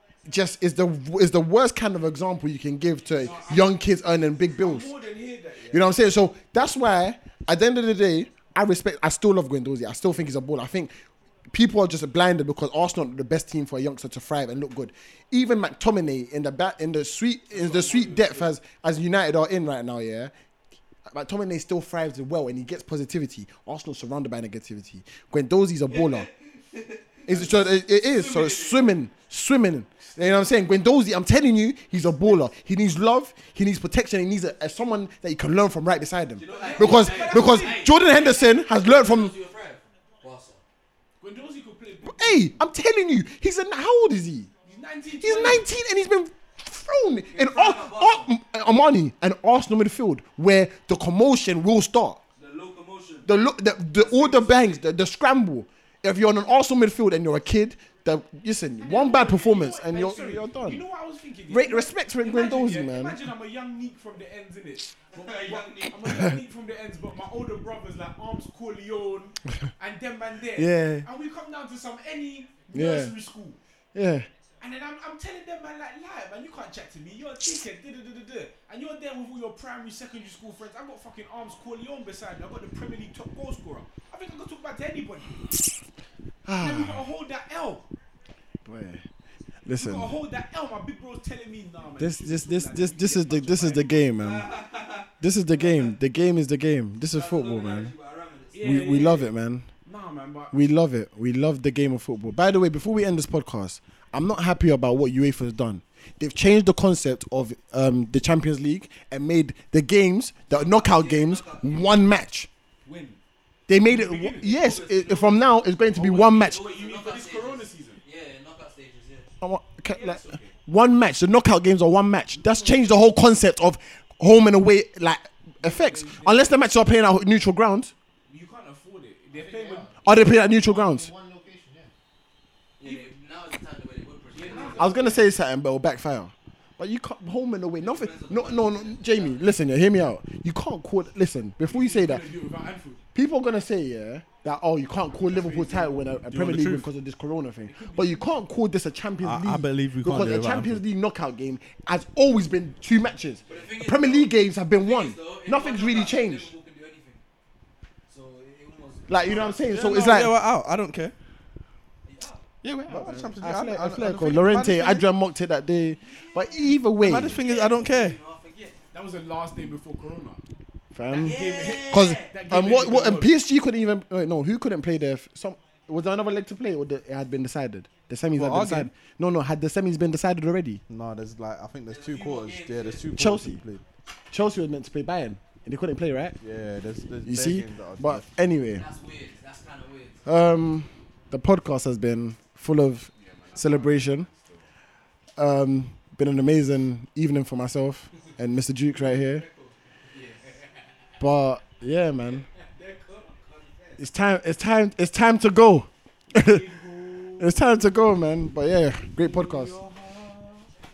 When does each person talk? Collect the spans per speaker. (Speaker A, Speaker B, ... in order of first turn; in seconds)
Speaker A: 0.2-4.9, 5.7-10.9, 11.5-20.3, 21.1-26.3, 27.3-39.3, 42.0-44.5, 45.2-52.2, 53.3-60.8, 61.5-63.3, 66.1-66.4, 70.5-71.1, 72.7-73.2, 74.0-74.3, 86.5-87.0, 88.7-89.0, 89.7-90.2, 92.0-94.5, 95.2-97.9, 98.6-99.7, 100.5-112.5, 113.7-116.7, 119.4-127.9, 130.0-131.1, 134.8-142.3, 143.2-156.5, 159.1-160.4, 162.6-167.4, 170.9-180.8, 183.2-183.6, 184.3-186.4, 187.3-188.9, 190.2-194.3, 195.4-199.4, 201.2-202.5, 204.0-206.7, 207.4-209.8
Speaker B: 3.1-5.9, 17.5-18.5, 36.4-37.9, 41.2-42.5, 44.6-45.7, 54.0-54.8, 58.8-73.6, 74.6-85.4, 86.6-87.9, 89.7-94.1, 98.5-99.3, 99.8-100.6, 112.8-113.2, 113.8-115.2, 115.9-118.0, 119.9-120.5, 122.3-122.7, 125.6-126.5, 128.3-130.0, 132.8-133.1, 134.3-135.3, 141.6-143.0, 145.2-146.2, 147.7-148.3, 168.9-170.4, 171.1-173.3, 193.1-194.6, 200.1-200.8, 206.3-208.0, 209.2-210.7
Speaker C: 25.9-27.2, 27.9-28.9, 36.4-40.6, 47.3-48.3, 52.4-53.3, 54.1-54.8, 65.1-66.0, 94.2-95.9, 97.1-99.0, 110.5-111.8, 114.5-115.3, 116.3-119.3, 129.6-129.8, 132.8-135.2, 137.8-139.5, 153.5-157.2, 158.1-159.7, 162.1-162.4, 166.1-168.8, 171.1-172.4, 181.9-183.1, 188.7-190.2, 199.0-199.8, 202.8-204.0
Speaker D: 129.3-131.9
Speaker E: 146.3-146.9, 149.2-150.8, 159.7-161.2, 162.9-165.0, 167.0-168.2, 178.3-178.9, 180.9-183.8, 186.4-188.2